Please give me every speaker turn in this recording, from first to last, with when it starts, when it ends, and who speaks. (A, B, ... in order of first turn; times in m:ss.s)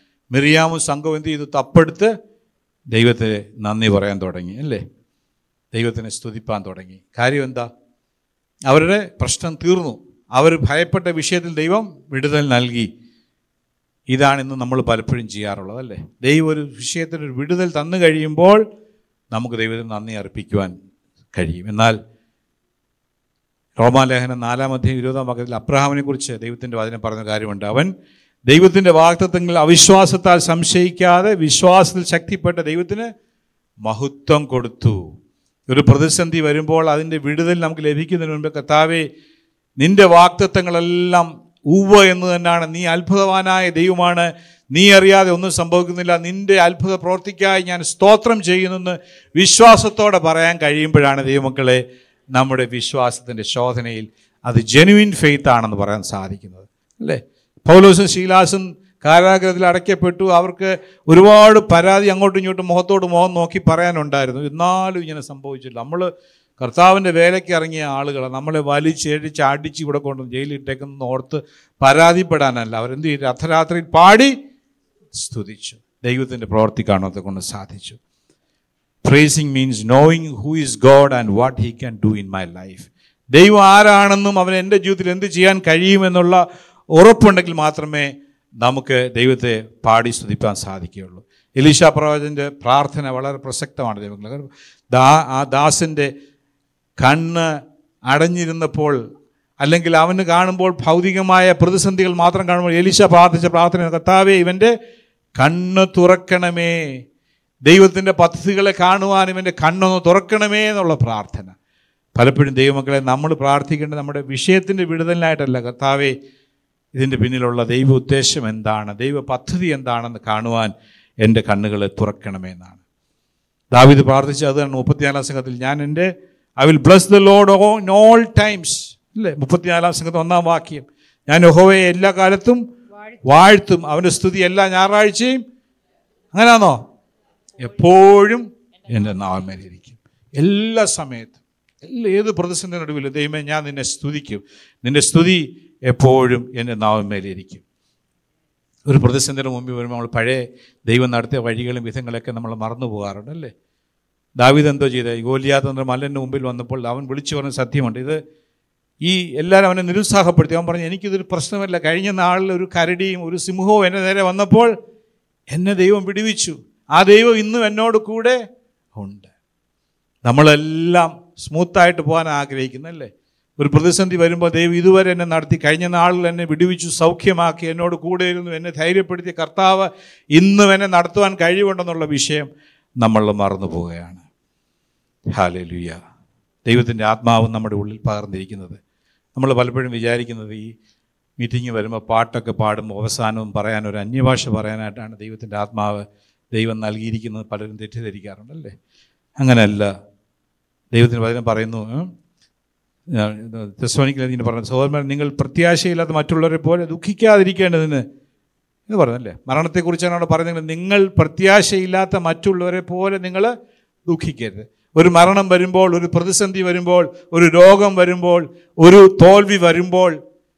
0:00.3-0:02.1 A
0:02.9-0:04.8 A
0:05.7-0:07.7 A
0:08.7-0:12.9 A
0:14.1-0:18.6 A
0:19.3-0:20.7 A
0:21.3-0:22.0 A
0:23.8-0:27.9 A
0:28.5-0:33.1 A
0:33.8-0:35.1 A
0:35.7-0:39.1 A
0:39.8-0:51.8 A
0:52.3-1:14.3 A
1:15.2-1:18.0 A
1:19.0-1:26.4 A
1:27.0-1:36.1 A
1:37.0-1:37.5 A
1:38.1-1:39.0 A
1:39.6-1:44.7 A
1:45.4-1:46.8 A
1:47.7-1:51.5 A
1:52.2-1:56.1 A
1:56.9-2:00.7 A
2:01.2-2:02.8 A
2:03.7-2:06.1 A
2:06.6-2:12.6 A
2:13.2-2:15.4 A
2:16.3-2:16.8 A
2:17.6-2:27.6 A
2:28.9-2:33.5 A
2:34.4-2:38.2 A
2:39.0-2:44.7 A
2:45.5-2:48.4 A
2:49.0-2:49.3 A
2:50.2-3:02.5 A
3:03.0-3:04.2 A
3:05.3-3:06.0 A
3:06.7-3:08.8 A
3:09.4-3:10.7 A
3:11.4-3:18.7 A
3:19.4-3:19.9 A
3:20.9-3:22.1 A
3:23.1-3:28.0 A
3:28.9-3:33.5 A
3:34.1-3:40.2 A